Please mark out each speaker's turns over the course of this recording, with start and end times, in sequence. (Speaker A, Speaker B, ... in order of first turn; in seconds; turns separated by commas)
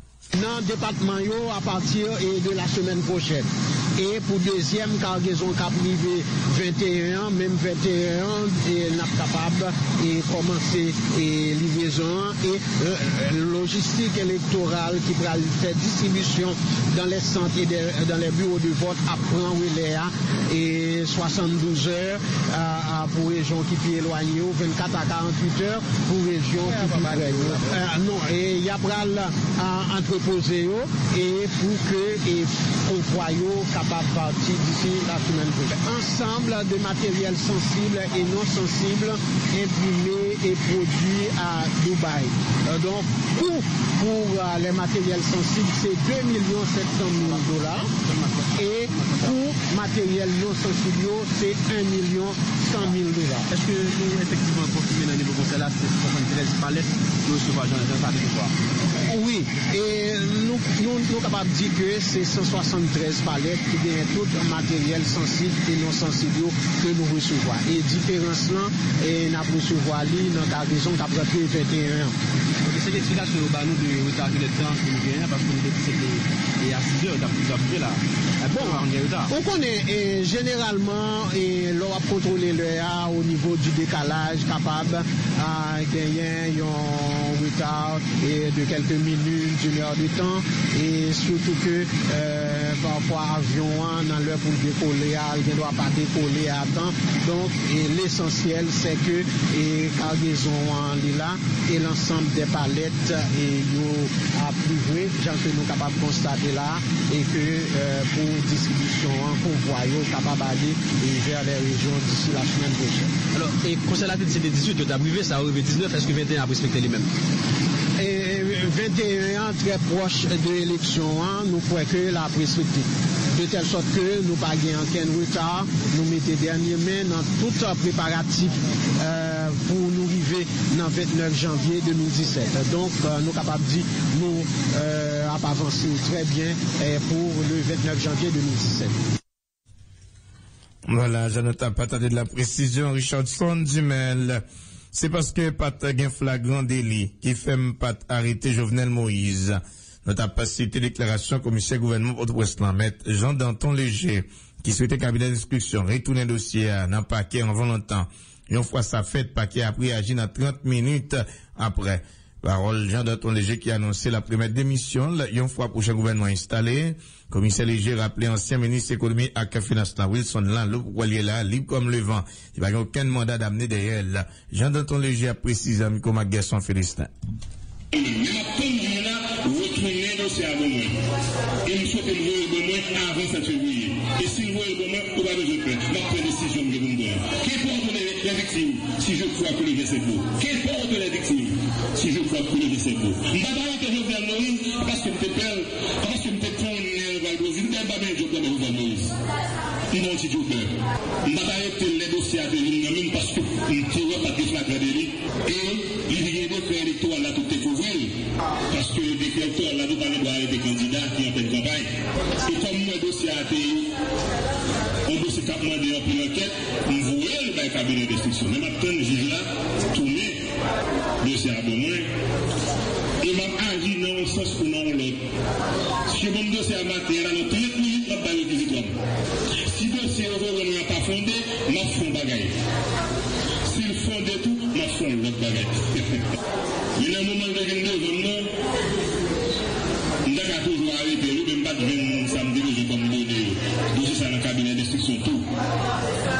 Speaker A: 0.3-48.0, Speaker B: 26.6-27.8, Speaker B: 47.9-49.3, Speaker A: 48.5-53.5, Speaker B: 53.5-58.5, Speaker A: 59.1-72.1, Speaker B: 72.7-79.3, Speaker A: 78.5-113.2, Speaker B: 113.3-117.1, Speaker A: 118.0-138.9, Speaker C: 140.9-177.1, Speaker D: 177.9-181.0, Speaker D: 181.6-199.1, Speaker D: 199.9-200.7, Speaker D: 201.2-213.9, Speaker D: 215.1-220.4, Speaker D: 221.2-222.1, Speaker D: 223.2-225.2, Speaker D: 226.1-229.0, Speaker D: 229.7-232.5, Speaker D: 233.7-236.3, Speaker D: 236.9-238.5, Speaker D: 240.2-245.5